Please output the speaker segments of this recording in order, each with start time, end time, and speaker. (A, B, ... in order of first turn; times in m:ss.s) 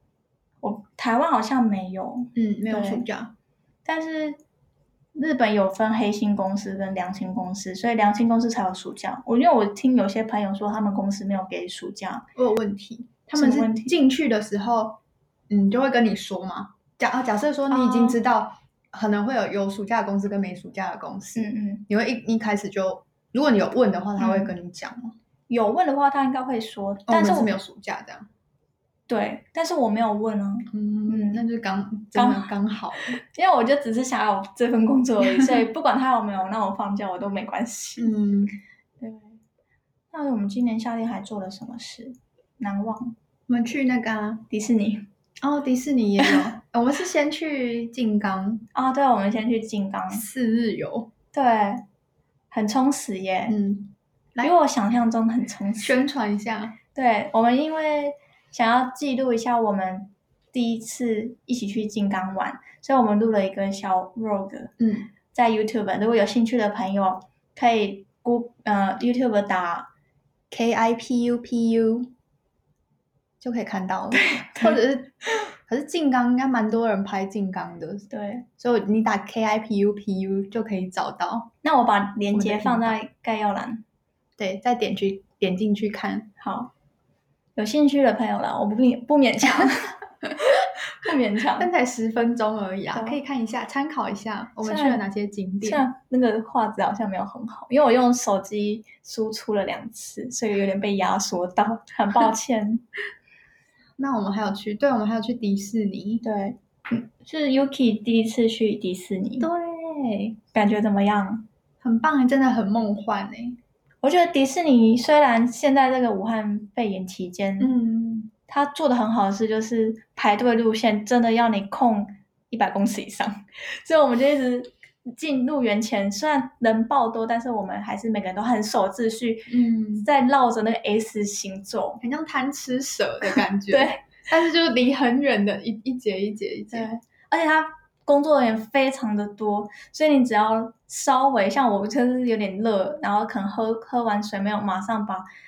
0:00.6-0:03.0 A
0:02.4-0:03.3 B
0:03.8-0:04.4 A
0:05.1-0:12.2 A
0:12.4-0:15.0 B
0:13.3-0:14.0 A
0:15.5-0:25.1 B
0:17.7-0:18.2 A
0:21.4-0:21.9 A
0:24.2-0:24.5 A
0:25.5-0:27.5 A
0:27.1-0:28.3 B
0:29.1-0:31.4 A
0:30.7-0:33.2 B
0:32.1-0:32.5 A
0:33.2-0:38.1 A
0:38.0-0:38.6 B
0:39.0-0:39.4 A
0:40.1-0:43.2 A
0:43.5-0:44.4 B
0:44.5-0:45.1 A
0:45.4-0:48.7 B
0:48.7-0:50.2 A
0:50.1-0:51.1 B
0:51.3-0:51.8 A
0:52.5-0:53.6 A
0:53.5-0:54.5 B
0:54.4-0:56.0 A
0:55.8-0:56.8 B
0:56.9-1:04.7 A
1:04.8-1:05.1 B
1:05.3-1:09.9 A
1:10.5-1:12.1 B
1:13.4-1:18.1 B
1:14.1-1:14.8 A
1:18.1-1:18.4 A
1:18.6-1:21.5 B
1:21.6-1:23.8 A
1:22.3-1:23.0 B
1:24.4-1:26.3 B
1:26.4-1:26.7 A
1:27.6-1:31.7 A
1:31.6-1:35.8 B
1:32.9-1:33.2 A
1:34.6-1:35.0 A
1:35.6-1:42.8 A
1:44.0-1:46.2 B
1:46.2-1:49.5 A
1:49.4-1:50.4 B
1:50.5-1:51.4 A
1:51.8-1:53.6 B
1:54.0-2:12.0 A
1:57.6-1:58.0 B
2:09.5-2:10.1 B
2:12.0-2:16.9 B
2:13.3-2:14.0 A
2:16.7-2:25.2 A